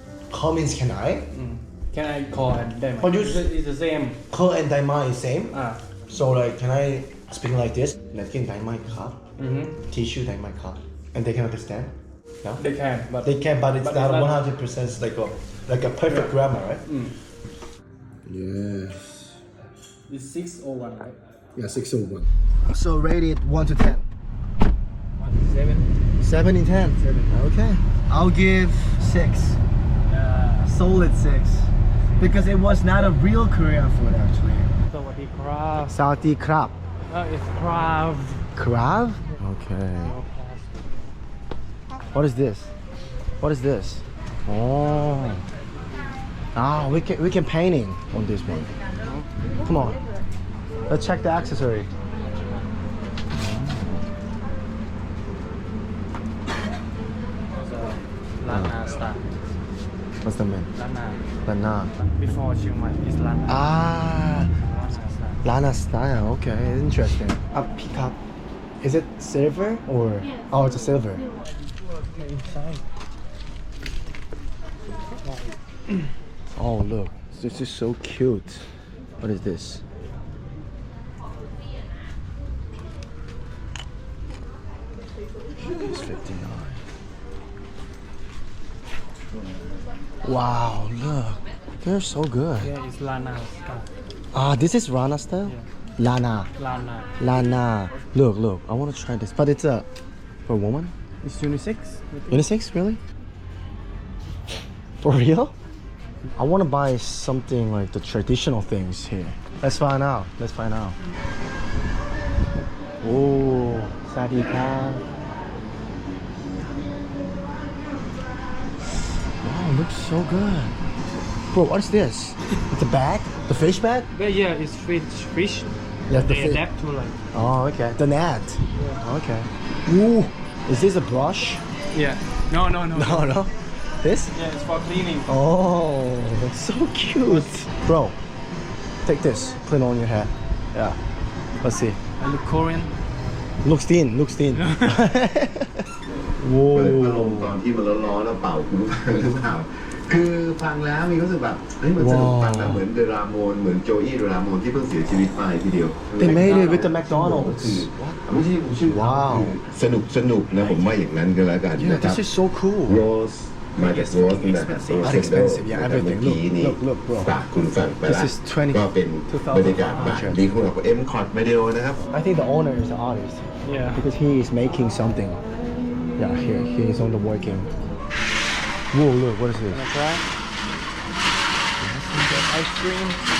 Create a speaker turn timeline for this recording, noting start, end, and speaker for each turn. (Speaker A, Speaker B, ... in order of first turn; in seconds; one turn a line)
Speaker A: 0.3-1.3
Speaker B: 1.3-4.2
Speaker A: 3.0-3.5
Speaker A: 4.3-5.5
Speaker B: 5.5-5.8
Speaker A: 6.1-9.2
Speaker B: 9.4-9.8
Speaker A: 9.8-12.6
Speaker B: 12.6-14.4
Speaker A: 13.2-16.9
Speaker B: 16.1-16.4
Speaker B: 16.9-17.1
Speaker A: 18.2-19.4
Speaker B: 20.1-21.2
Speaker A: 21.6-24.0
Speaker B: 25.2-25.9
Speaker A: 26.2-29.6
Speaker B: 27.0-27.4
Speaker B: 30.1-30.8
Speaker A: 30.6-34.7
Speaker B: 32.1-32.5
Speaker B: 34.9-36.0
Speaker A: 35.9-36.8
Speaker B: 37.1-38.5
Speaker A: 38.5-40.1
Speaker B: 40.0-40.9
Speaker A: 42.1-42.7
Speaker A: 43.4-45.4
Speaker A: 46.5-48.8
Speaker A: 49.6-50.0
Speaker A: 50.9-51.9
Speaker A: 53.3-54.0
Speaker B: 57.6-59.2
Speaker A: 58.5-58.8
Speaker A: 60.2-60.7
Speaker B: 60.7-61.2
Speaker A: 61.4-61.9
Speaker B: 62.0-63.7
Speaker A: 63.5-64.5
Speaker B: 64.5-65.4
Speaker A: 65.4-68.2
Speaker A: 68.8-71.3
Speaker B: 72.0-72.8
Speaker B: 75.2-75.5
Speaker A: 76.5-78.7
Speaker A: 79.2-79.8
Speaker A: 85.6-86.8
Speaker A: 90.2-92.7
Speaker B: 92.6-93.9
Speaker A: 94.3-96.5
Speaker B: 96.6-97.1
Speaker A: 97.2-99.9
Speaker A: 100.5-100.9
Speaker B: 101.2-102.4
Speaker A: 102.3-103.0
Speaker A: 105.0-105.5
Speaker A: 106.3-111.0
Speaker A: 113.0-115.1
Speaker A: 119.4-120.7
Speaker A: 121.5-124.1
Speaker B: 124.1-127.2
Speaker A: 126.1-126.6
Speaker A: 127.3-131.6
Speaker B: 128.7-129.0
Speaker B: 131.9-133.3
Speaker A: 132.9-134.3
Speaker B: 134.3-135.3
Speaker A: 135.2-138.2
Speaker B: 137.2-137.5
Speaker A: 139.0-141.0
Speaker A: 141.6-142.0
Speaker B: 142.2-142.9
Speaker A: 143.6-147.6
Speaker B: 144.6-145.0
Speaker C: 146.7-162.2
Speaker A: 151.9-152.8
Speaker A: 156.2-158.2
Speaker B: 156.2-157.1
Speaker A: 158.8-159.6
Speaker A: 161.7-163.1
Speaker C: 162.9-172.0
Speaker B: 163.8-165.3
Speaker A: 165.0-167.4
Speaker A: 168.0-170.5
Speaker B: 169.3-170.2
Speaker A: 172.1-175.4
Speaker B: 173.6-174.0
Speaker A: 176.2-177.7
Speaker A: 178.9-179.8
Speaker B: 179.7-180.2
Speaker A: 181.8-182.3
Speaker B: 182.1-183.2